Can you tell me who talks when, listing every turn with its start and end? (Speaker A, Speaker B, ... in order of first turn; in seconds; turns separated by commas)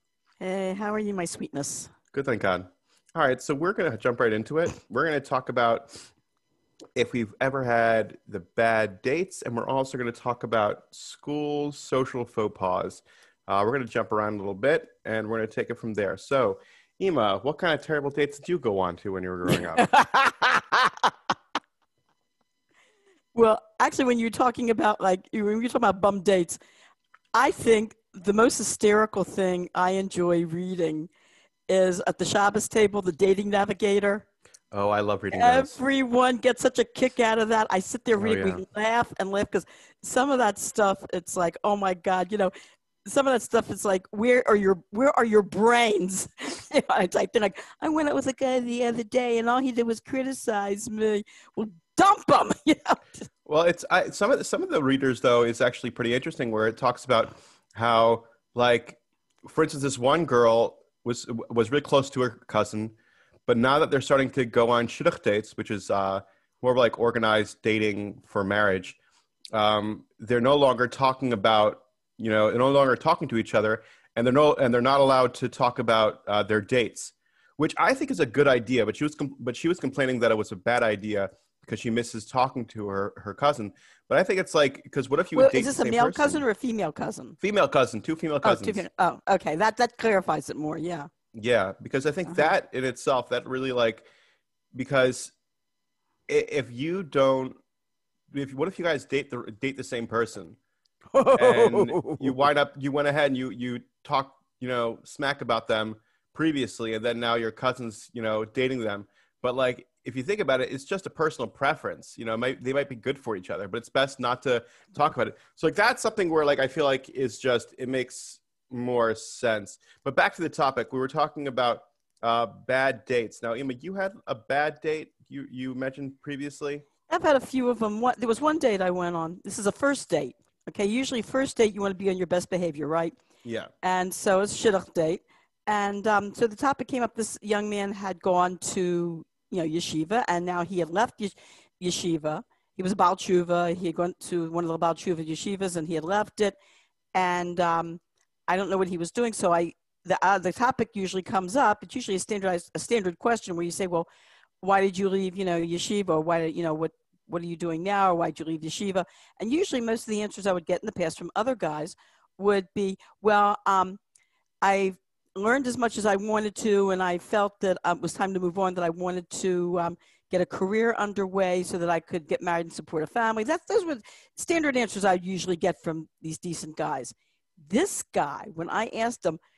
Speaker A: 0.4-1.9, Speaker B: 2.1-6.0, Speaker B: 7.0-19.9, Speaker A: 19.5-21.1, Speaker A: 23.3-26.6, Speaker A: 27.3-31.1, Speaker A: 31.7-34.2, Speaker B: 34.7-35.8, Speaker A: 35.3-42.5, Speaker B: 38.1-38.6, Speaker A: 43.0-53.0, Speaker B: 53.5-62.9, Speaker B: 63.5-69.0, Speaker B: 69.5-86.4, Speaker A: 85.3-87.3, Speaker B: 87.4-88.8, Speaker A: 88.4-91.1, Speaker B: 91.3-94.0, Speaker B: 94.7-95.3, Speaker B: 96.3-97.6, Speaker B: 98.3-100.6, Speaker A: 101.1-102.5, Speaker B: 101.3-126.8, Speaker A: 127.1-133.2, Speaker B: 133.4-133.7, Speaker A: 133.8-146.6, Speaker A: 147.1-154.1, Speaker A: 154.6-164.0, Speaker A: 164.6-179.4